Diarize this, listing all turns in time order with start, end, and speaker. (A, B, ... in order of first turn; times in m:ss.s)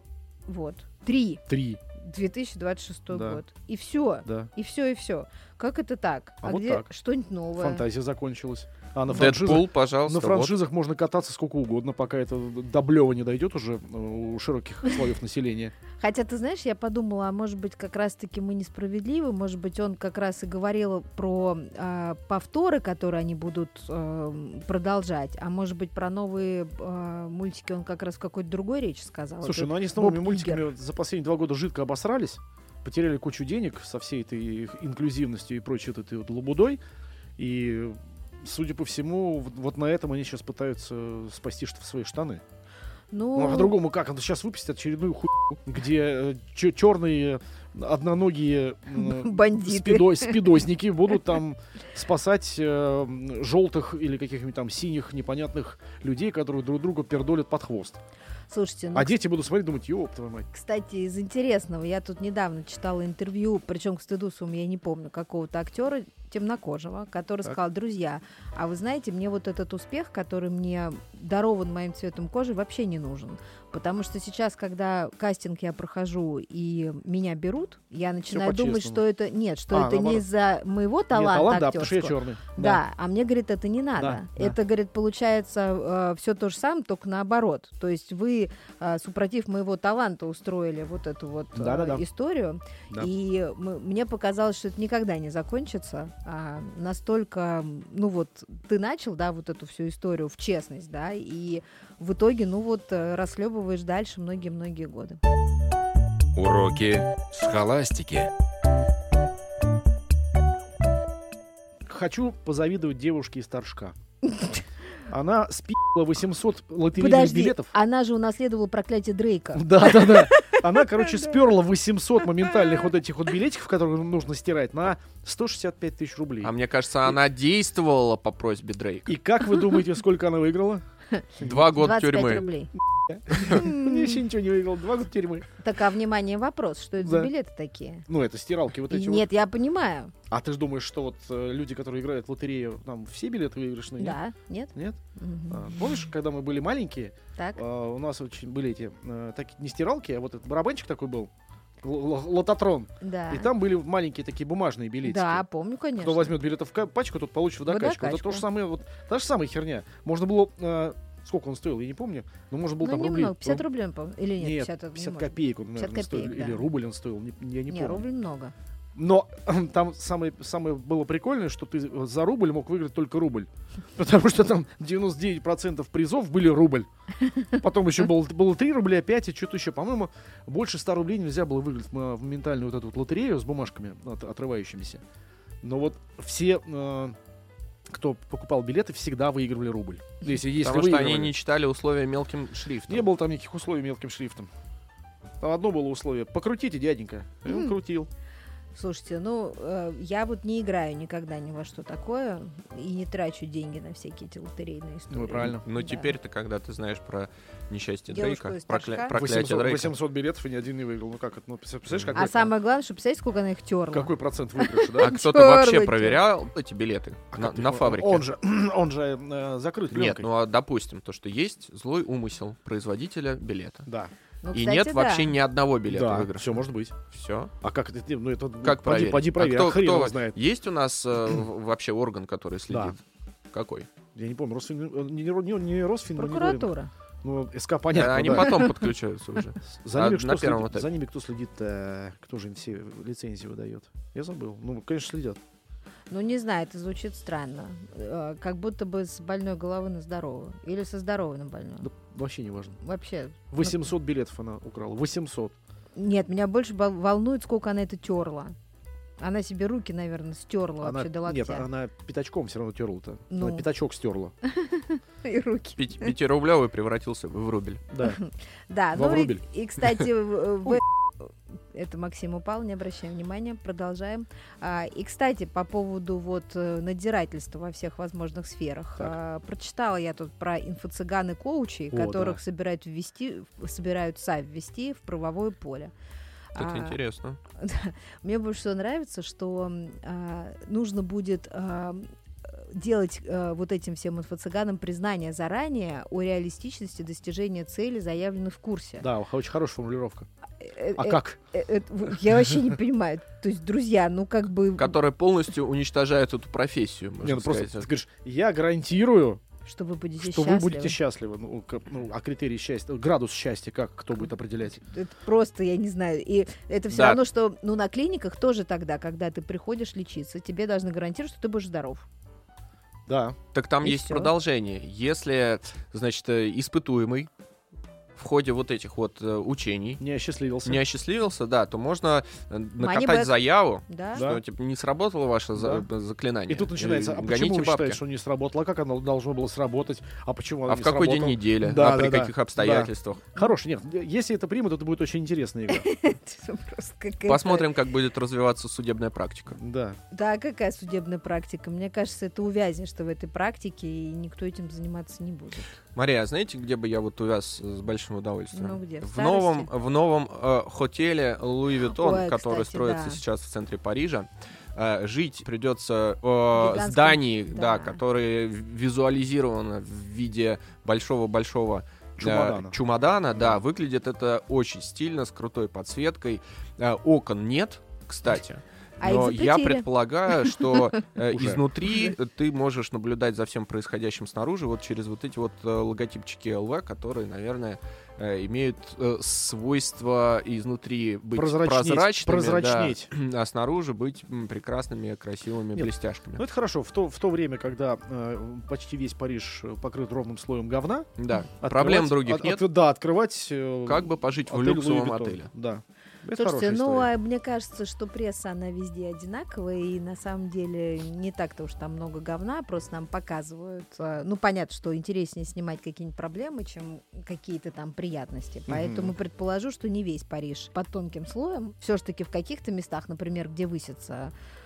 0:00.5-0:01.4 A
0:01.5-0:01.8 B
0:02.0-0:07.8 A
0:03.1-0:03.4 B
0:04.2-0:04.5 B
0:06.4-0:06.9 B
0:07.6-0:15.7 B
0:09.1-0:10.6 C
0:16.0-0:30.7 A
0:29.4-0:36.8 B
0:37.4-0:42.4 B
0:43.1-0:43.8 A
0:43.4-0:58.0 B
0:49.0-0:50.4 A
0:58.5-0:59.2 A
0:58.9-1:00.5 B
1:00.5-1:45.2 A
1:18.3-1:19.0 B
1:19.7-1:20.2 B
1:21.1-1:22.8 B
1:24.0-1:24.6 B
1:31.6-1:32.0 B
1:46.4-1:48.3 D
1:51.9-1:54.0 B
1:55.1-1:57.7 B
1:57.0-2:00.6 A
1:59.5-2:06.5 B
2:06.4-2:09.2 C
2:09.1-2:10.8 B
2:11.2-2:12.7 A
2:11.4-2:11.7 B
2:11.4-2:12.5 C
2:13.1-2:15.5 B
2:13.4-2:14.1 A
2:15.6-2:18.1 A
2:17.0-2:17.3 B
2:18.1-2:19.3 B
2:18.9-2:20.1 A
2:20.3-2:24.2 B
2:24.0-2:26.0 A
2:25.5-2:31.3 B
2:31.8-2:35.4 B
2:33.0-2:33.5 A
2:35.0-2:36.4 A
2:36.0-2:43.6 B
2:37.7-2:38.5 A
2:42.8-2:46.6 A
2:44.4-2:48.1 B
2:47.7-2:48.5 A
2:49.0-2:56.9 B
2:57.5-3:05.0 B
3:05.6-3:07.2 B
3:07.9-3:11.3 B
3:10.6-3:13.1 C
3:12.9-3:14.5 B
3:15.4-3:18.1 B
3:18.7-3:26.1 A
3:25.1-3:25.6 B
3:25.6-3:29.9 C
3:28.1-3:29.2 A
3:29.1-3:32.5 B
3:31.9-3:32.2 C
3:32.2-3:36.2 A
3:33.9-3:35.1 B
3:35.0-3:38.2 C
3:37.3-3:40.3 B
3:39.9-3:43.9 C
3:43.9-3:44.1 B
3:44.4-3:45.3 A
3:44.5-3:47.5 C
3:45.9-3:47.0 B
3:47.6-3:50.4 B
3:48.6-3:53.9 C
3:52.7-3:53.0 B
3:54.2-3:56.7 B
3:56.2-3:56.9 A
3:57.2-3:58.8 B
3:57.9-4:00.9 C
3:59.7-4:05.4 B
4:06.1-4:11.9 A
4:11.8-4:12.8 B
4:12.8-4:13.9 A
4:13.5-4:15.6 B
4:16.0-4:18.6 A
4:19.2-4:21.7 A
4:20.8-4:24.3 B
4:23.3-4:23.6 A
4:24.4-4:26.1 A
4:25.8-4:27.8 C
4:27.9-4:28.2 B
4:28.0-4:45.9 A
4:28.9-4:29.4 B
4:41.9-4:42.4 B
4:46.6-4:47.0 A
4:46.6-4:47.4 C
4:47.6-4:59.1 A
4:59.0-5:00.3 B
5:00.6-5:05.0 A
5:01.0-5:01.4 B
5:04.8-5:07.9 C
5:07.2-5:09.4 B
5:09.6-5:11.0 A
5:10.2-5:14.8 B
5:14.9-5:22.1 A
5:16.9-5:17.2 C
5:23.1-5:23.4 B
5:23.5-5:27.3 C
5:23.8-5:24.3 A
5:28.2-5:30.0 C
5:30.0-5:30.8 B
5:30.6-5:38.0 C
5:32.8-5:33.3 A
5:33.9-5:34.2 A
5:34.2-5:34.4 B
5:35.6-5:35.9 B
5:36.5-5:45.9 B
5:40.7-5:43.2 C
5:45.7-5:47.7 A
5:47.3-5:49.6 C
5:49.6-5:50.0 B
5:50.1-5:55.7 A
5:56.0-6:36.4 C
5:58.5-5:59.7 A
6:01.8-6:03.2 A
6:06.5-6:08.0 A
6:12.2-6:12.8 B
6:19.0-6:20.8 A
6:21.3-6:21.6 B
6:31.4-6:33.1 B
6:35.8-6:41.1 B
6:41.2-6:42.6 C
6:41.6-6:47.1 B
6:43.9-6:45.5 C
6:46.4-7:04.3 A
6:58.7-6:59.1 B